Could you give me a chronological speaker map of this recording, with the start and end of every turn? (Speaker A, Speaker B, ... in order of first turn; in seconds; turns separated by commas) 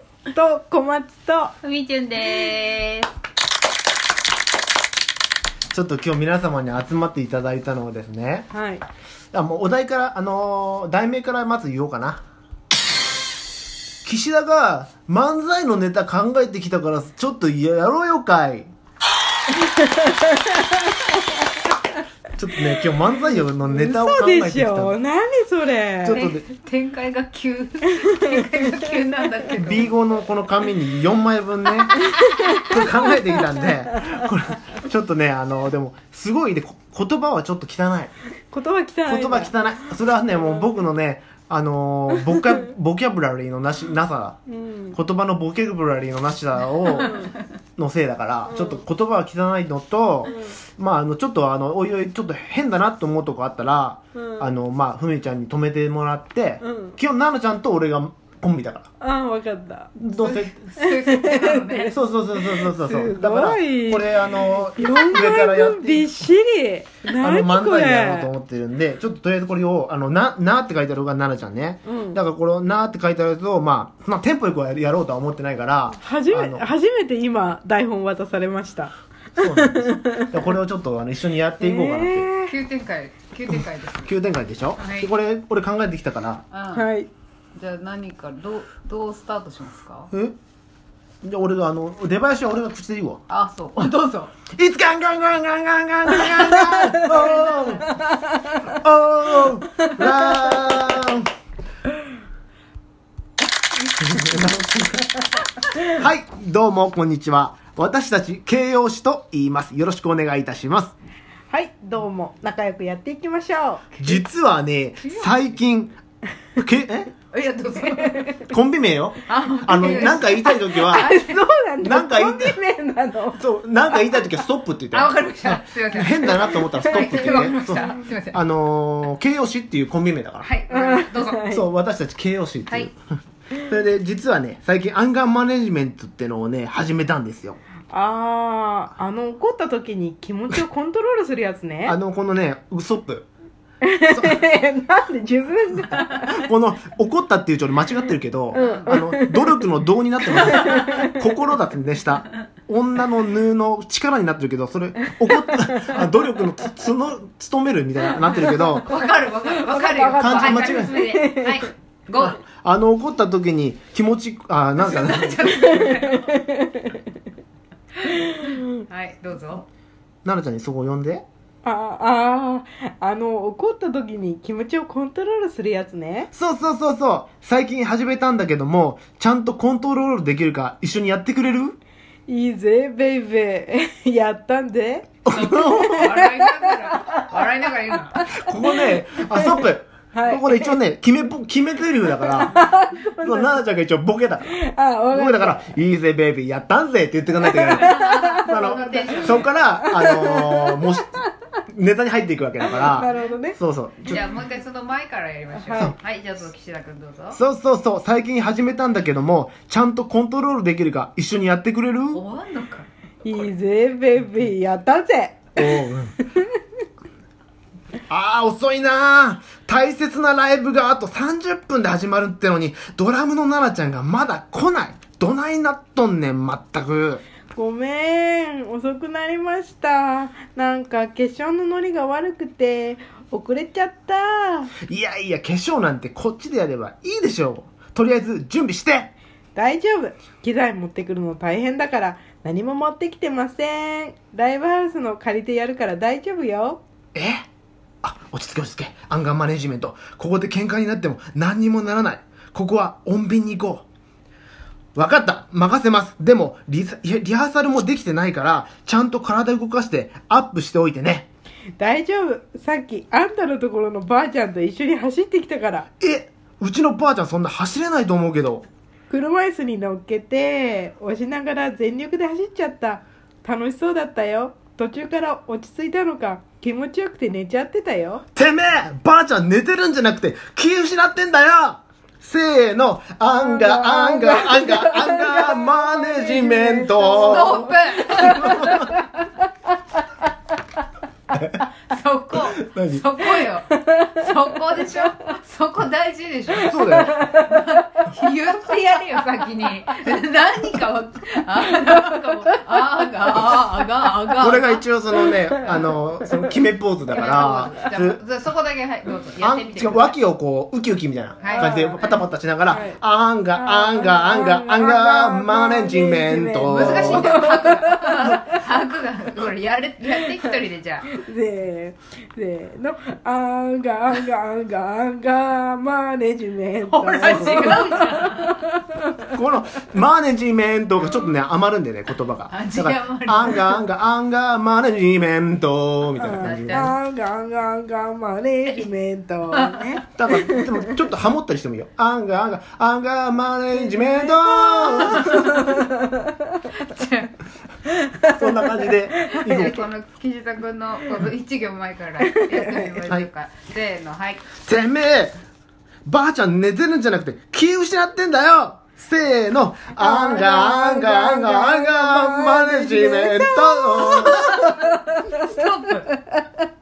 Speaker A: 0.3-1.5, Speaker B: 1.6-3.1, Speaker C: 5.7-8.5, Speaker A: 8.5-8.8, Speaker C: 9.3-12.2, Speaker C: 14.1-18.7, Speaker A: 19.8-21.1, Speaker C: 22.4-25.0, Speaker A: 23.6-26.3, Speaker C: 26.0-26.4, Speaker B: 26.1-29.9, Speaker C: 29.6-38.1, Speaker A: 32.2-32.6, Speaker A: 38.5-39.9, Speaker C: 39.1-44.4, Speaker A: 44.5-45.0, Speaker C: 44.9-47.2, Speaker A: 46.9-47.4, Speaker C: 47.8-58.9, Speaker A: 48.5-48.8, Speaker A: 50.3-50.6, Speaker A: 54.2-54.5, Speaker A: 56.6-57.0, Speaker A: 59.0-59.9, Speaker C: 60.0-60.5, Speaker B: 60.2-62.0, Speaker A: 60.8-68.3, Speaker C: 61.9-66.3, Speaker C: 67.1-76.7, Speaker A: 71.9-72.2, Speaker A: 76.0-80.5, Speaker C: 79.4-82.3, Speaker A: 81.6-82.5, Speaker B: 82.5-84.1, Speaker C: 83.5-86.4, Speaker B: 84.8-85.1, Speaker B: 86.5-86.9, Speaker A: 86.7-87.1, Speaker B: 87.6-90.1, Speaker C: 91.2-93.2, Speaker B: 93.3-94.3, Speaker C: 94.5-97.9, Speaker B: 97.0-97.9, Speaker C: 98.7-101.3, Speaker C: 104.0-105.1, Speaker C: 105.9-111.0, Speaker A: 111.5-113.8, Speaker B: 114.0-114.2, Speaker C: 114.0-116.0, Speaker B: 115.0-115.4, Speaker C: 116.6-117.1, Speaker B: 117.3-118.4, Speaker C: 118.4-121.1, Speaker B: 119.3-121.3, Speaker A: 120.7-123.4, Speaker C: 121.8-122.6, Speaker C: 123.4-130.5, Speaker B: 124.9-128.4, Speaker A: 126.8-127.9, Speaker B: 130.4-131.5, Speaker A: 130.7-131.7, Speaker C: 131.5-133.0, Speaker C: 133.6-137.6, Speaker A: 137.9-142.0, Speaker C: 141.9-143.3, Speaker A: 143.8-146.4, Speaker C: 144.1-144.4, Speaker C: 146.2-158.9, Speaker B: 148.5-149.0, Speaker A: 148.5-149.6, Speaker A: 150.3-151.2, Speaker B: 150.6-150.9, Speaker A: 155.1-156.1, Speaker A: 158.4-158.7, Speaker B: 158.7-162.4, Speaker A: 159.5-161.7, Speaker C: 160.1-161.0, Speaker C: 162.3-165.7, Speaker B: 164.8-166.4, Speaker A: 165.6-167.0, Speaker A: 168.1-168.7, Speaker B: 168.1-169.7, Speaker C: 170.2-171.2, Speaker A: 171.6-176.3, Speaker C: 176.3-181.8, Speaker A: 182.3-187.3, Speaker C: 185.3-186.1, Speaker B: 185.3-188.2, Speaker A: 188.2-190.8, Speaker C: 188.3-194.6, Speaker A: 192.2-193.6, Speaker A: 194.5-195.7, Speaker C: 195.1-201.2, Speaker B: 197.5-199.5, Speaker A: 197.6-198.6, Speaker A: 199.8-201.3, Speaker C: 201.7-204.2, Speaker A: 202.7-203.6, Speaker B: 204.1-207.4, Speaker A: 205.5-205.9, Speaker C: 207.3-212.2, Speaker B: 212.1-212.9, Speaker A: 213.2-216.5, Speaker C: 215.6-216.1, Speaker C: 218.1-227.2, Speaker A: 227.5-234.7, Speaker C: 234.9-239.1, Speaker A: 239.6-246.8, Speaker C: 247.1-247.4, Speaker C: 248.0-253.9, Speaker C: 255.0-261.3, Speaker A: 261.8-265.9, Speaker C: 266.0-268.7, Speaker A: 269.1-278.2, Speaker C: 278.4-288.9, Speaker A: 283.4-289.0, Speaker B: 287.1-289.0, Speaker C: 291.3-291.6, Speaker B: 291.8-304.8, Speaker C: 292.6-293.0, Speaker A: 293.8-294.1, Speaker A: 296.6-297.5, Speaker C: 296.6-297.2, Speaker C: 304.4-308.2, Speaker A: 305.2-305.8, Speaker B: 307.1-310.2, Speaker C: 309.4-317.4, Speaker B: 311.4-312.2, Speaker A: 311.4-313.0, Speaker A: 313.5-318.6, Speaker B: 316.6-321.1, Speaker A: 321.1-329.3, Speaker B: 326.9-328.8, Speaker C: 329.3-336.9, Speaker B: 331.0-331.3, Speaker B: 332.5-333.8, Speaker A: 336.2-340.9, Speaker B: 336.4-336.9, Speaker B: 339.5-340.0, Speaker C: 340.2-345.6, Speaker A: 343.8-346.4, Speaker B: 344.9-345.7, Speaker B: 346.7-347.3, Speaker A: 348.1-348.9, Speaker C: 348.3-349.9, Speaker B: 349.2-354.5, Speaker A: 352.3-352.9, Speaker C: 354.6-355.4, Speaker C: 356.1-364.5, Speaker A: 360.0-366.4, Speaker B: 364.1-366.1